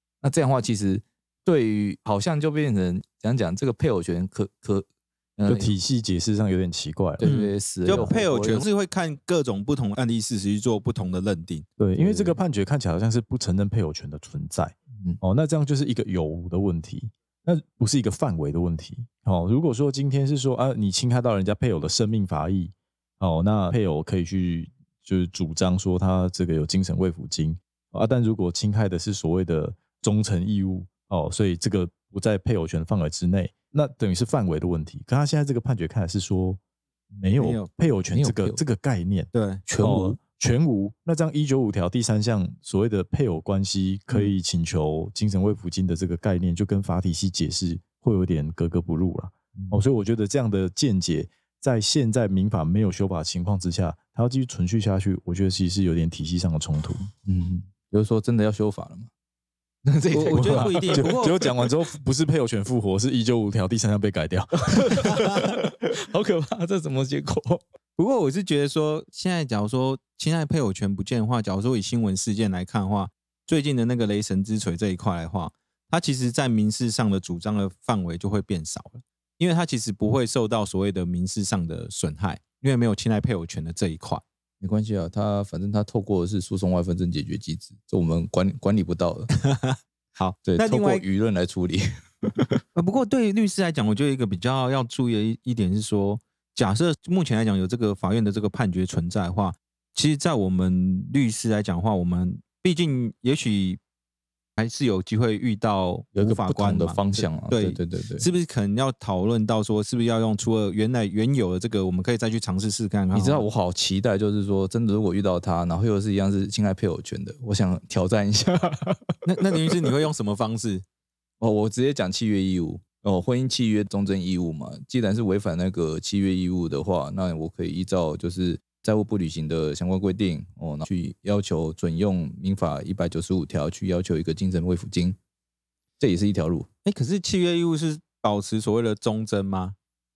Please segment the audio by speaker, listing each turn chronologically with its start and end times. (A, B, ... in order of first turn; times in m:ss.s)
0:00.2-0:05.7 A
0:05.5-0:07.3 B
0:07.2-0:08.7 A
0:07.2-0:11.6 C
0:11.8-0:36.6 B
0:12.0-0:12.4 A
0:37.2-0:57.1 B
0:37.4-0:37.7 C
0:38.1-0:38.6 A
0:39.3-0:39.6 C
0:39.6-0:40.2 A
0:57.2-0:59.1 A
0:59.8-1:01.1 A
1:00.1-1:01.4 C
1:00.5-1:04.8 B
1:04.6-1:07.6 A
1:08.0-1:24.2 C
1:24.6-1:29.3 A
1:29.4-1:31.0 C
1:30.4-1:31.8 A
1:32.7-1:43.8 C
1:44.6-1:53.5 C
1:46.1-1:48.3 A
1:53.1-1:59.0 A
1:59.2-2:00.8 C
2:01.4-2:15.2 A
2:16.0-2:16.7 A
2:16.8-2:19.7 C